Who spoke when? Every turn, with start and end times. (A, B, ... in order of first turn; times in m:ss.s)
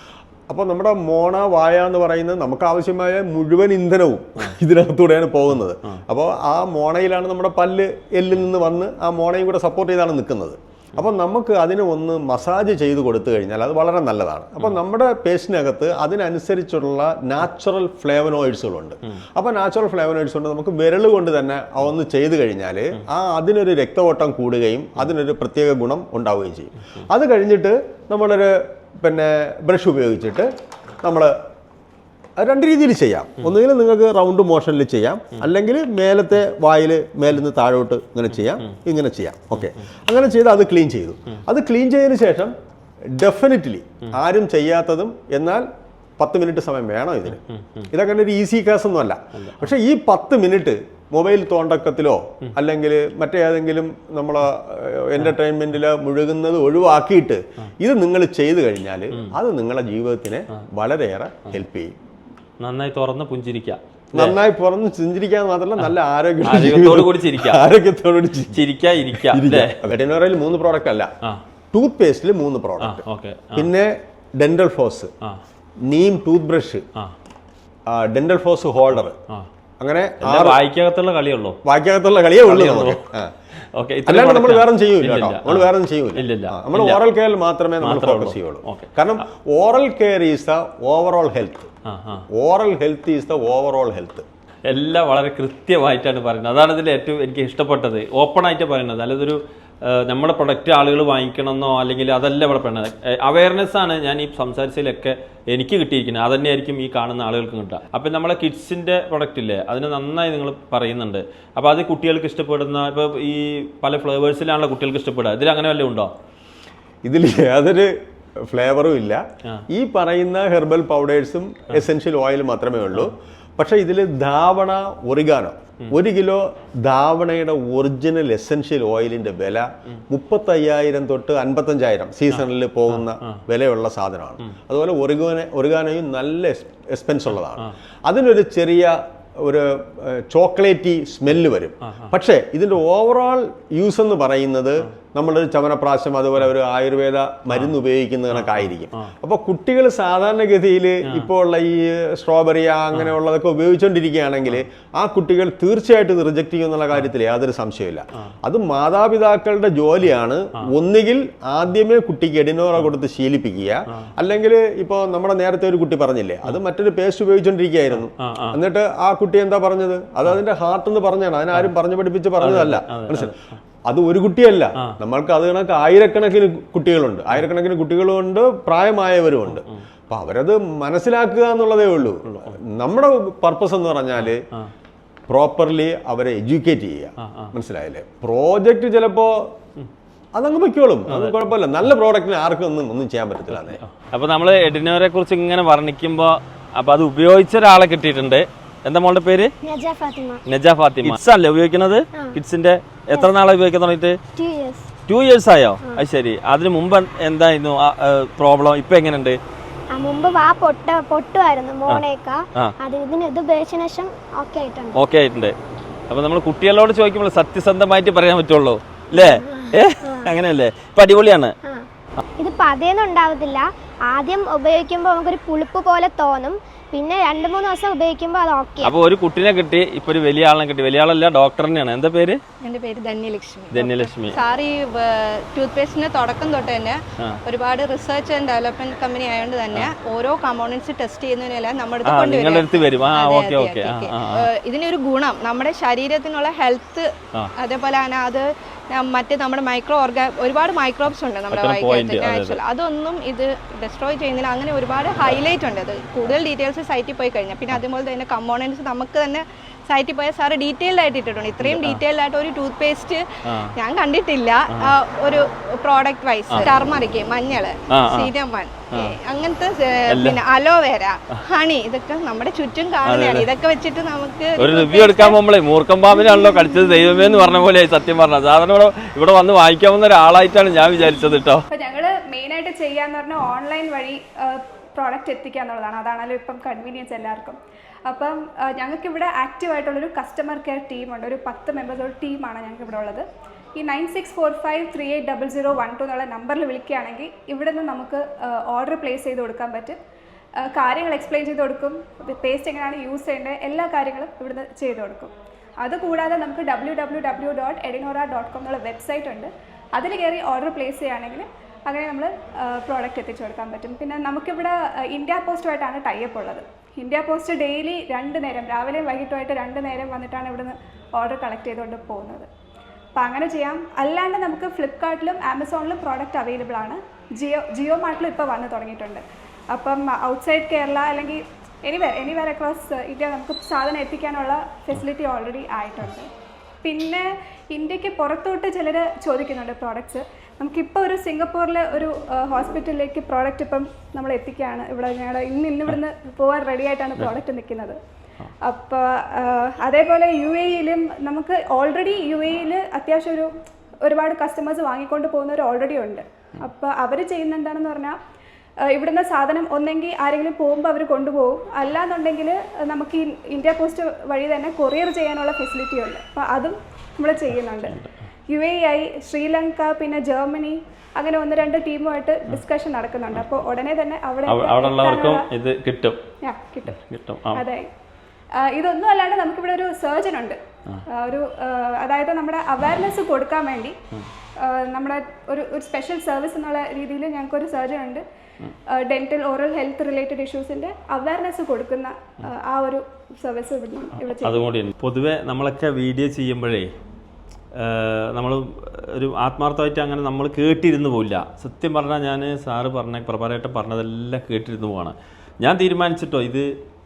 0:00.5-0:30.5 A
0:31.0-0:31.3 A
0:32.4-0:42.5 A
0:43.2-0:45.6 A
0:46.2-1:01.9 A
0:47.5-0:47.9 B
0:49.4-0:49.7 B
1:02.6-1:04.4 B
1:04.1-1:11.1 A
1:05.8-1:07.6 B
1:08.5-1:09.9 B
1:11.7-1:15.1 A
1:12.8-1:13.7 B
1:15.8-1:16.8 A
1:17.9-1:19.2 A
1:19.8-1:20.6 A
1:20.2-1:21.6 B
1:21.6-1:23.3 A
1:22.4-1:23.0 B
1:23.7-1:27.0 B
1:24.1-1:31.7 A
1:27.8-1:28.9 B
1:31.9-1:32.2 B
1:32.3-1:34.2 A
1:34.7-1:56.1 B
1:57.0-1:57.9 A
1:58.4-2:53.3 A
2:12.3-2:13.4 B
2:28.3-2:29.1 B
2:48.0-2:48.6 B
2:52.4-2:53.4 B
2:53.8-3:04.4 A
2:59.5-2:59.8 B
3:04.2-3:04.7 B
3:05.3-3:09.5 A
3:07.2-3:07.5 B
3:10.4-3:13.8 A
3:11.1-3:11.4 B
3:13.7-3:19.5 B
3:19.6-3:20.4 C
3:20.5-3:24.2 B
3:24.4-3:24.9 C
3:25.1-3:29.4 B
3:29.9-3:35.0 C
3:34.9-3:35.5 B
3:36.1-3:41.5 B
3:39.1-3:40.3 C
3:42.4-3:48.9 C
3:48.8-3:52.4 B
3:52.6-4:23.2 D
3:53.7-3:54.4 B
4:02.0-4:04.5 B
4:11.5-4:12.6 B
4:21.6-4:22.0 B
4:23.5-4:23.7 B
4:23.8-4:35.4 D
4:27.9-4:28.3 B
4:30.1-4:30.4 B
4:33.0-4:33.5 B
4:34.6-4:41.6 B
4:41.7-4:53.2 E
4:53.8-5:00.0 E
5:00.6-5:22.5 E
5:23.2-5:36.3 E
5:36.8-5:48.0 E
5:48.6-5:53.5 E
5:54.0-5:58.2 E
5:58.9-6:08.0 E
6:08.5-6:15.5 E
6:14.5-6:16.2 B
6:16.4-6:17.0 E
6:16.9-6:17.6 B
6:17.5-6:17.9 E
6:18.6-6:20.6 E
6:21.1-6:23.9 E
6:24.6-6:28.2 E
6:28.9-6:34.7 E
6:34.4-6:36.9 B
6:37.8-6:46.7 B